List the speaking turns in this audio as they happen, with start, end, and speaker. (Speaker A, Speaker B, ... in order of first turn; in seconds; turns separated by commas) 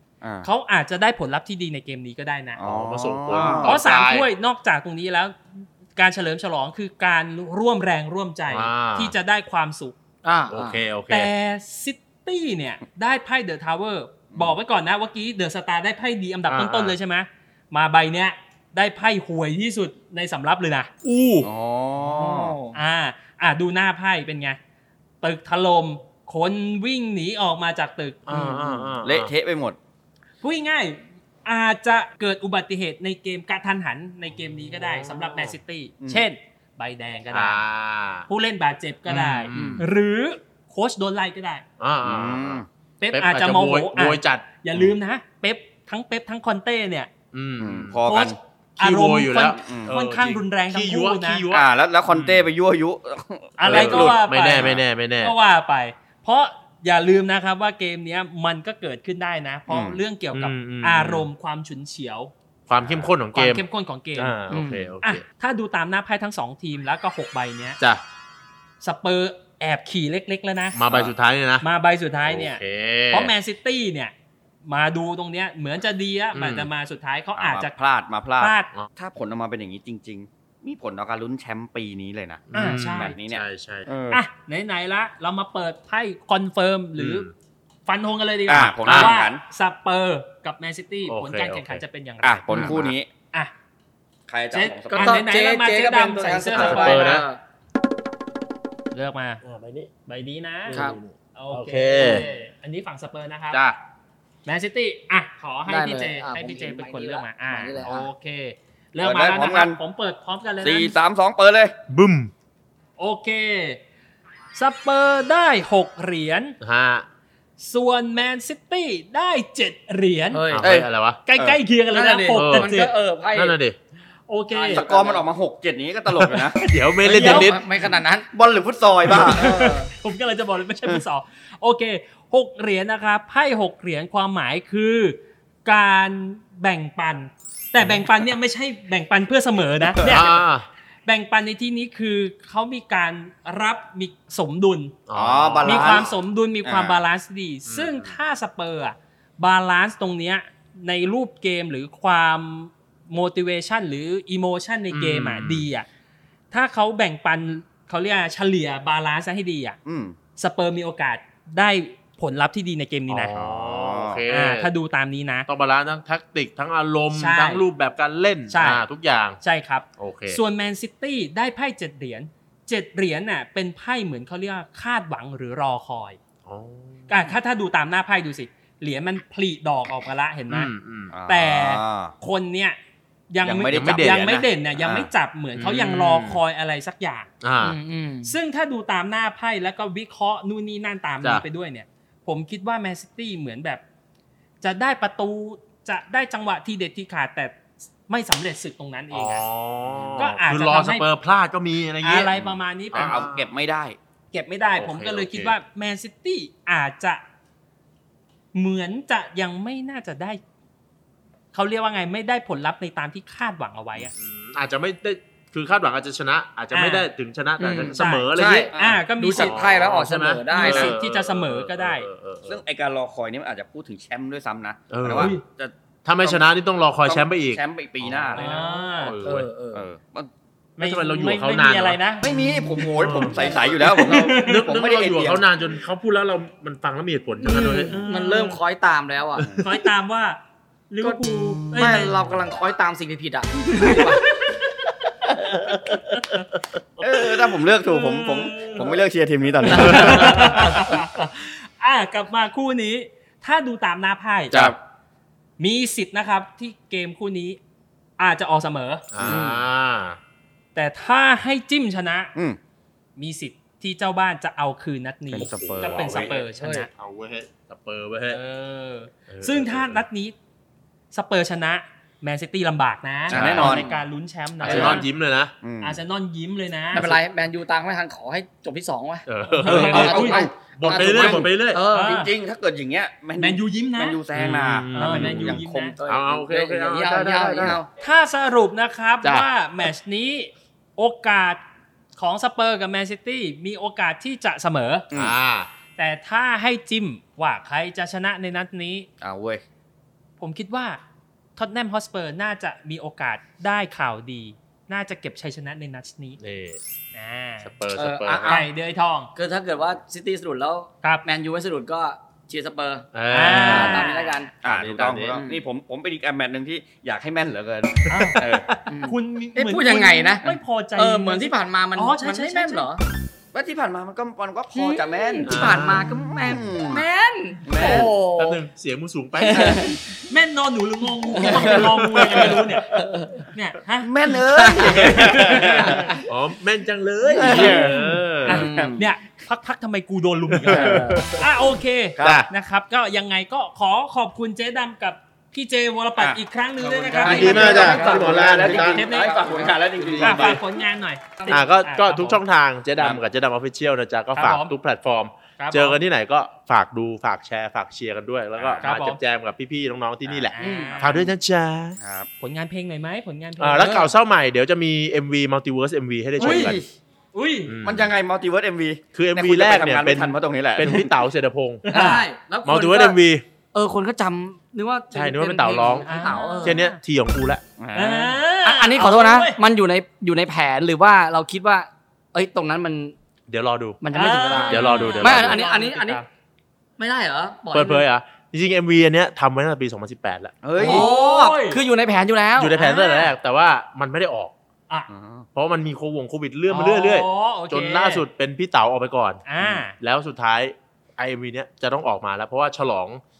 Speaker A: 0.2-0.5, Speaker B: 0.4-2.6, Speaker A: 2.6-3.7, Speaker C: 2.6-4.3, Speaker D: 3.3-3.6, Speaker B: 3.6-9.9, Speaker C: 8.5-9.1, Speaker D: 10.2-10.8, Speaker C: 10.5-11.3, Speaker B: 11.1-20.9, Speaker C: 16.5-16.9, Speaker C: 21.0-21.5, Speaker A: 21.4-22.5, Speaker D: 22.0-22.7, Speaker B: 22.7-24.6, Speaker B: 25.2-28.2, Speaker C: 28.3-29.3, Speaker D: 28.3-28.8, Speaker A: 29.0-29.8, Speaker B: 30.4-37.6, Speaker C: 34.3-35.6, Speaker A: 36.0-36.3, Speaker C: 37.3-38.3, Speaker B: 38.3-41.6, Speaker C: 39.1-39.8, Speaker A: 39.5-39.8, Speaker C: 41.8-42.6, Speaker A: 42.0-42.7, Speaker B: 43.0-47.1, Speaker C: 43.1-44.9, Speaker C: 47.3-48.0, Speaker A: 47.6-48.4, Speaker B: 48.0-51.5, Speaker C: 48.8-52.5, Speaker A: 49.5-49.9, Speaker A: 51.5-54.8, Speaker B: 53.6-62.3, Speaker C: 53.6-55.3, Speaker A: 59.7-60.0, Speaker C: 60.3-61.3, Speaker C: 62.7-63.6, Speaker B: 63.3-64.3, Speaker C: 64.2-65.2, Speaker D: 64.5-64.8, Speaker B: 65.0-67.8, Speaker B: 68.8-70.8, Speaker C: 70.7-71.7, Speaker B: 71.6-74.1, Speaker C: 72.2-73.3, Speaker B: 74.6-77.7, Speaker C: 76.3-76.7, Speaker A: 77.3-84.2, Speaker B: 78.4-78.7, Speaker C: 82.5-83.9, Speaker B: 82.5-83.1, Speaker B: 84.1-87.3, Speaker C: 87.0-87.3, Speaker B: 87.9-93.5, Speaker A: 88.5-89.4, Speaker C: 88.8-89.2, Speaker C: 91.1-91.8, Speaker A: 92.2-93.1, Speaker C: 92.5-92.9, Speaker A: 94.3-95.2, Speaker B: 94.5-97.2, Speaker D: 94.9-97.4, Speaker C: 96.5-97.2, Speaker B: 98.9-99.4, Speaker C: 99.4-99.9, Speaker B: 100.1-100.8, Speaker C: 100.7-102.2, Speaker D: 100.7-101.0, Speaker B: 101.3-103.6, Speaker D: 102.0-102.3, Speaker C: 103.5-103.8, Speaker B: 104.5-110.9, Speaker D: 105.7-108.1, Speaker A: 109.0-109.8, Speaker A: 110.6-111.8, Speaker C: 111.9-112.3, Speaker B: 113.0-113.8, Speaker B: 114.5-116.5, Speaker C: 116.6-117.0, Speaker B: 117.6-120.4, Speaker D: 120.3-120.7, Speaker C: 120.5-121.2, Speaker A: 120.6-121.6, Speaker B: 121.2-122.9, Speaker D: 121.9-123.5, Speaker C: 122.3-122.7, Speaker C: 123.3-123.8, Speaker B: 124.3-124.8, Speaker D: 124.5-125.3, Speaker A: 124.7-126.6, Speaker C: 126.1-127.6, Speaker B: 127.0-127.5, Speaker D: 127.0-128.3, Speaker A: 128.3-129.5, Speaker B: 129.1-140.4, Speaker D: 129.1-129.9, Speaker C: 137.8-138.0, Speaker A: 140.0-140.2, Speaker C: 140.0-140.7, Speaker B: 141.1-144.9, Speaker C: 145.1-146.2, Speaker A: 145.1-146.1, Speaker B: 145.6-155.8, Speaker A: 146.6-147.0, Speaker C: 147.7-148.1, Speaker C: 154.9-155.7, Speaker B: 156.5-159.8, Speaker A: 159.8-160.2, Speaker B: 160.3-163.3, Speaker C: 163.1-164.7, Speaker A: 163.3-164.2, Speaker B: 164.3-165.5, Speaker C: 165.4-169.4, Speaker B: 167.1-167.7, Speaker B: 168.5-168.8, Speaker B: 169.4-176.2, Speaker C: 170.0-170.4, Speaker C: 176.4-177.3, Speaker B: 177.1-180.7, Speaker C: 180.5-181.1, Speaker A: 181.1-182.1, Speaker B: 181.3-182.8, Speaker B: 183.3-187.3, Speaker A: 183.4-185.1, Speaker C: 183.7-184.3, Speaker C: 185.6-186.4, Speaker C: 187.4-187.8, Speaker D: 187.6-188.3, Speaker B: 188.2-193.8, Speaker B: 194.6-197.6, Speaker B: 198.1-199.4, Speaker C: 199.1-203.5, Speaker B: 200.2-201.1, Speaker B: 202.0-203.2, Speaker A: 202.3-204.0, Speaker B: 204.3-207.2, Speaker C: 204.8-205.5, Speaker B: 208.5-210.4, Speaker B: 211.5-214.1, Speaker C: 214.0-222.6, Speaker B: 216.7-217.1, Speaker D: 217.6-220.9, Speaker B: 217.7-219.6, Speaker A: 218.7-219.0, Speaker B: 220.5-222.1, Speaker A: 222.4-226.5, Speaker C: 224.9-225.3, Speaker B: 225.1-225.4, Speaker C: 226.0-229.5, Speaker A: 227.0-228.4, Speaker B: 228.3-229.1, Speaker D: 228.4-229.8, Speaker A: 229.7-230.3, Speaker B: 230.8-232.2, Speaker C: 230.8-232.0, Speaker A: 232.2-235.4, Speaker C: 233.0-233.4, Speaker B: 233.8-234.6, Speaker C: 234.2-238.0, Speaker D: 237.4-239.4, Speaker B: 237.9-238.6, Speaker B: 239.6-240.4, Speaker B: 240.9-242.1, Speaker D: 241.7-244.2, Speaker B: 243.8-244.9, Speaker C: 245.4-247.2, Speaker B: 246.2-246.4, Speaker A: 247.0-250.7, Speaker B: 247.8-249.0, Speaker B: 249.7-254.6, Speaker C: 249.8-250.7, Speaker D: 249.8-250.7, Speaker C: 254.5-254.8, Speaker A: 254.5-254.8, Speaker B: 255.6-257.6, Speaker B: 258.2-259.0, Speaker C: 259.1-260.2, Speaker A: 259.2-259.4, Speaker D: 259.2-259.6, Speaker B: 260.7-262.3, Speaker B: 263.2-266.9, Speaker A: 265.3-266.3, Speaker C: 265.4-266.3, Speaker D: 266.2-266.9, Speaker C: 266.9-268.4, Speaker B: 268.3-270.3, Speaker C: 269.3-270.0, Speaker B: 271.1-275.1, Speaker C: 273.3-273.8, Speaker A: 273.3-273.9, Speaker D: 273.4-274.0, Speaker C: 274.6-275.5, Speaker A: 274.6-275.0, Speaker A: 275.6-276.0, Speaker B: 275.8-277.2, Speaker D: 276.9-282.2, Speaker C: 279.3-281.8, Speaker B: 279.6-280.4, Speaker A: 279.7-281.4, Speaker B: 281.9-282.3, Speaker A: 282.0-285.9, Speaker B: 283.4-284.2, Speaker C: 284.3-287.8, Speaker B: 284.9-285.9, Speaker D: 285.9-287.9, Speaker B: 288.0-291.6, Speaker C: 289.2-289.5, Speaker B: 292.2-295.1, Speaker C: 295.1-295.7, Speaker B: 296.0-299.1, Speaker A: 299.2-299.6, Speaker B: 300.4-301.0, Speaker B: 301.6-306.4, Speaker C: 306.4-306.8, Speaker B: 307.1-307.7, Speaker C: 307.6-308.6, Speaker D: 307.9-308.7, Speaker B: 308.4-309.3, Speaker D: 309.3-314.5, Speaker C: 313.1-314.1, Speaker B: 313.3-314.5, Speaker A: 314.6-318.7, Speaker C: 314.6-315.4, Speaker D: 315.3-315.6, Speaker B: 318.1-318.4, Speaker C: 318.2-318.8, Speaker D: 318.9-323.0, Speaker B: 319.0-322.9, Speaker A: 323.5-327.0, Speaker D: 324.7-328.6, Speaker C: 325.4-326.2, Speaker A: 327.6-328.1, Speaker C: 327.8-329.9, Speaker D: 329.4-330.0, Speaker B: 330.2-333.0, Speaker D: 331.3-333.5, Speaker B: 333.5-336.2, Speaker A: 334.0-336.2, Speaker D: 334.5-336.2, Speaker C: 334.8-338.6, Speaker D: 337.2-339.0, Speaker A: 337.4-337.9, Speaker B: 337.4-352.4, Speaker A: 338.5-339.0, Speaker C: 340.5-341.4, Speaker D: 340.7-341.2, Speaker A: 342.2-342.5, Speaker C: 342.2-342.5, Speaker A: 346.2-350.6, Speaker D: 346.9-348.5, Speaker C: 347.2-349.1, Speaker C: 349.9-350.6, Speaker C: 351.5-362.0, Speaker A: 353.0-353.2, Speaker B: 354.3-354.7, Speaker B: 355.6-356.0, Speaker A: 358.6-358.9, Speaker B: 358.8-359.2, Speaker A: 360.2-360.6, Speaker B: 360.5-361.2, Speaker D: 360.6-361.0, Speaker A: 362.0-362.3, Speaker B: 362.4-364.0, Speaker C: 363.6-366.8, Speaker D: 363.8-364.1, Speaker B: 366.4-366.8, Speaker A: 366.4-366.9, Speaker B: 367.3-367.7, Speaker C: 367.7-368.1, Speaker A: 367.8-371.1, Speaker C: 369.1-371.9, Speaker B: 371.8-372.2, Speaker D: 371.9-373.1, Speaker C: 372.6-373.4, Speaker D: 373.7-376.8, Speaker C: 375.1-377.6, Speaker B: 376.0-377.0, Speaker A: 377.8-378.4, Speaker B: 377.9-379.6, Speaker D: 378.6-383.1, Speaker C: 383.5-384.0, Speaker D: 384.0-386.2, Speaker B: 384.1-386.2, Speaker C: 384.6-385.6, Speaker D: 387.0-388.0, Speaker C: 387.7-390.6, Speaker A: 390.6-391.1, Speaker B: 390.8-391.8, Speaker D: 390.8-392.7, Speaker C: 392.6-394.5, Speaker B: 392.8-393.3, Speaker A: 395.1-395.4, Speaker C: 395.5-399.4, Speaker B: 396.7-398.2, Speaker B: 399.4-399.9, Speaker C: 400.0-403.2